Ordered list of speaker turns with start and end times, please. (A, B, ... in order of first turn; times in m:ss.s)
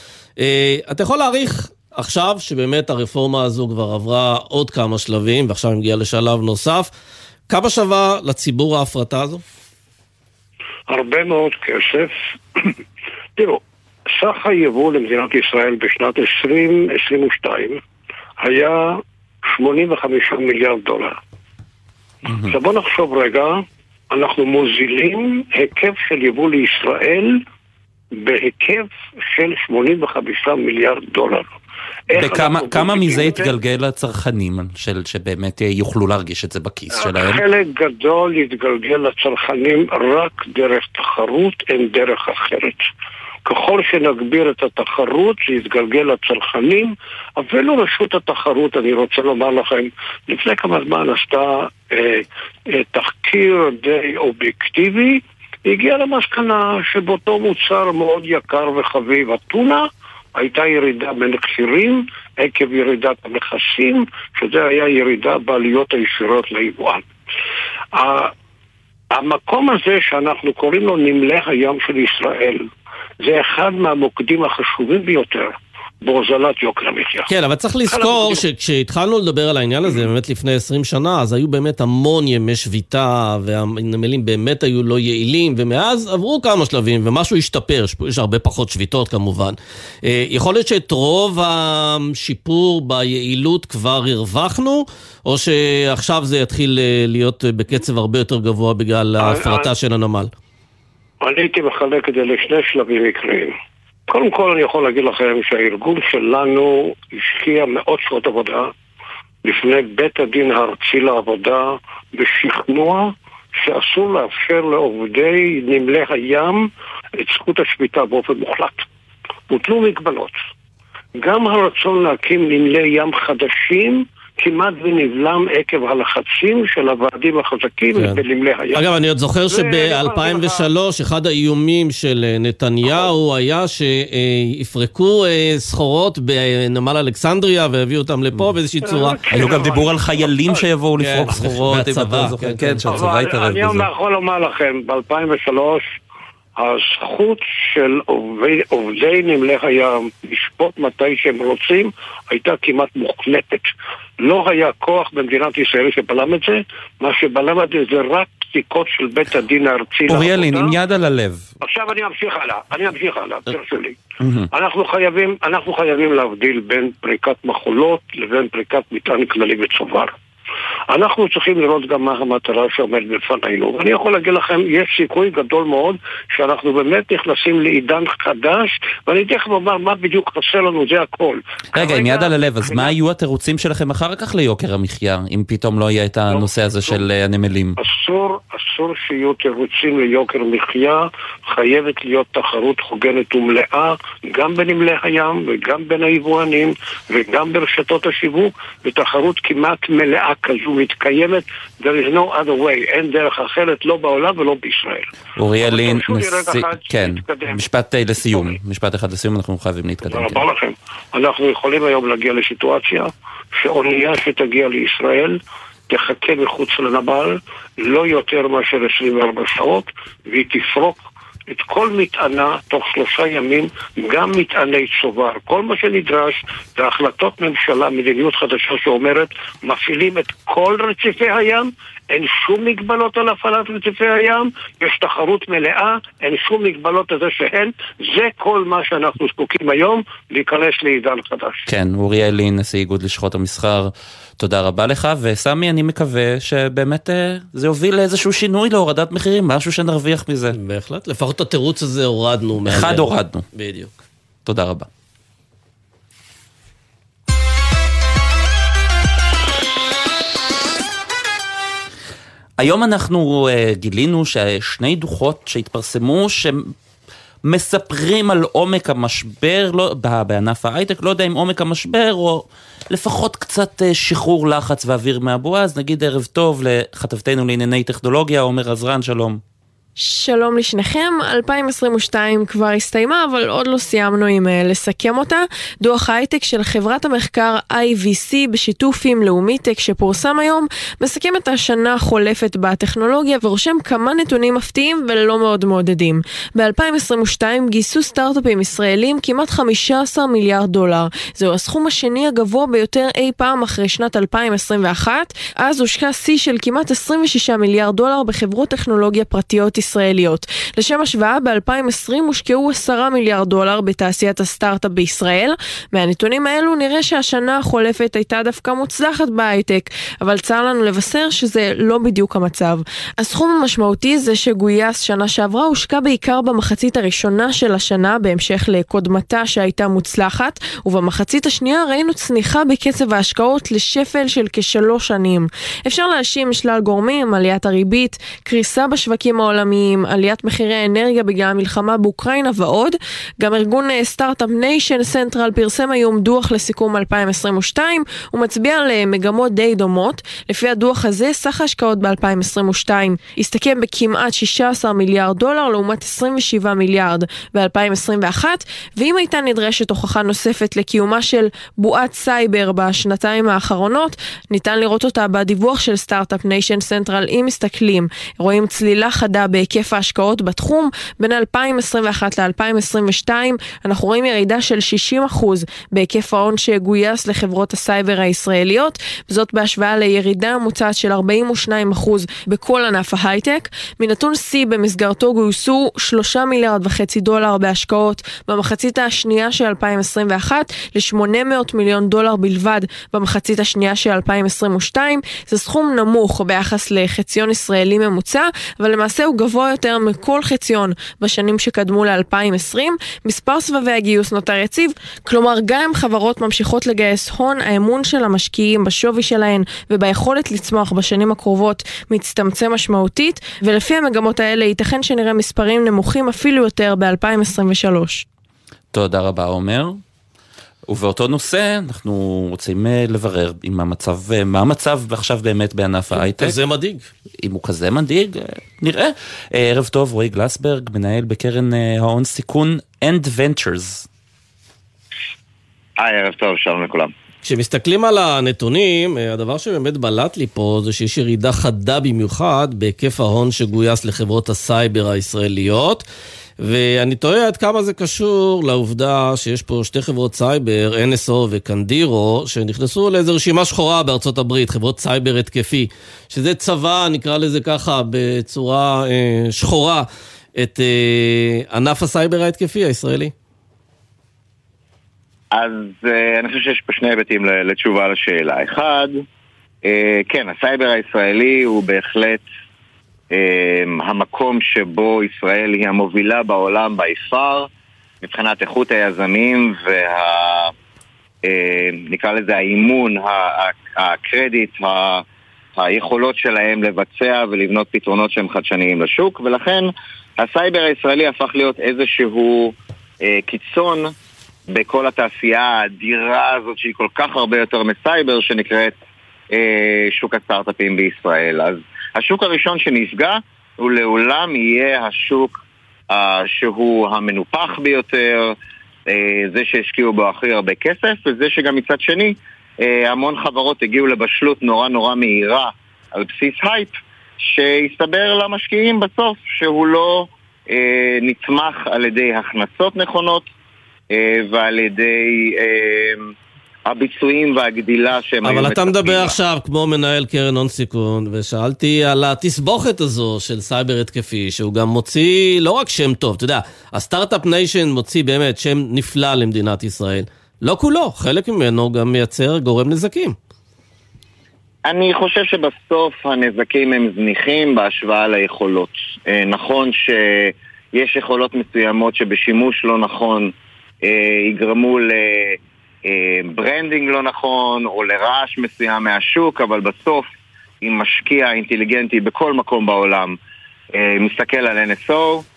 0:00.4-0:06.9 A
0:07.5-0:09.4 A
0:10.9-0:12.1 B
0:14.2-0:17.8 B
0:18.4-0:19.0 B
0:19.5-0:21.2 B
0:22.3-0:22.5 C
0:22.5-0:23.6 B
0:24.1-0:27.4 B
0:28.2-0:31.5 B
0:32.1-0:33.5 B
0:32.2-0:37.4 C
0:36.9-0:42.8 B
0:43.5-0:59.8 B
1:00.4-1:07.0 B
1:08.0-1:08.3 B
1:09.1-1:12.7 B
1:13.2-1:17.3 B
1:17.3-1:40.3 A
1:17.9-1:18.4 B
1:39.2-1:39.7 B
1:41.2-1:43.5 B
1:44.1-1:48.7 B
1:49.4-1:58.9 B
1:59.5-2:00.4 B
2:01.2-2:08.9 B
2:08.0-2:08.2 A
2:08.8-2:19.2 A
2:09.5-2:10.7 B
2:18.8-2:20.7 B
2:19.3-2:23.9 C
2:21.0-2:23.0 A
2:22.9-2:25.9 B
2:26.6-2:40.7 B
2:40.1-2:41.5 C
2:41.6-2:44.0 B
2:44.2-2:44.5 C
2:44.5-2:50.1 B
2:50.9-3:02.9 B
3:01.7-3:07.8 C
3:06.3-3:07.1 B
3:07.8-3:25.1 B
3:25.4-3:30.4 C
3:25.6-3:27.6 B
3:30.1-4:01.6 B
4:01.7-4:10.6 C
4:10.6-4:13.9 A
4:12.7-4:13.5 C
4:14.5-4:14.9 C
4:22.6-4:26.7 C
4:27.4-4:39.4 C
4:40.0-6:58.2 D
6:58.9-7:00.0 C
7:00.9-7:06.6 C
7:06.1-7:07.1 A
7:07.4-7:14.1 C
7:16.0-7:17.1 E
7:17.4-7:26.0 A
7:26.6-7:43.3 A
7:45.5-7:49.2 E
7:49.8-7:52.4 E
7:53.3-7:57.7 E
7:58.2-8:00.7 E
8:01.4-8:05.2 E
8:05.8-8:14.1 E
8:14.7-8:19.0 E
8:19.5-8:28.6 E
8:29.1-8:43.5 E
8:44.1-8:46.3 E
8:46.9-8:49.4 E
8:48.4-9:03.4 A
9:04.9-9:20.3 E
9:20.8-9:23.4 E
9:24.0-9:25.4 E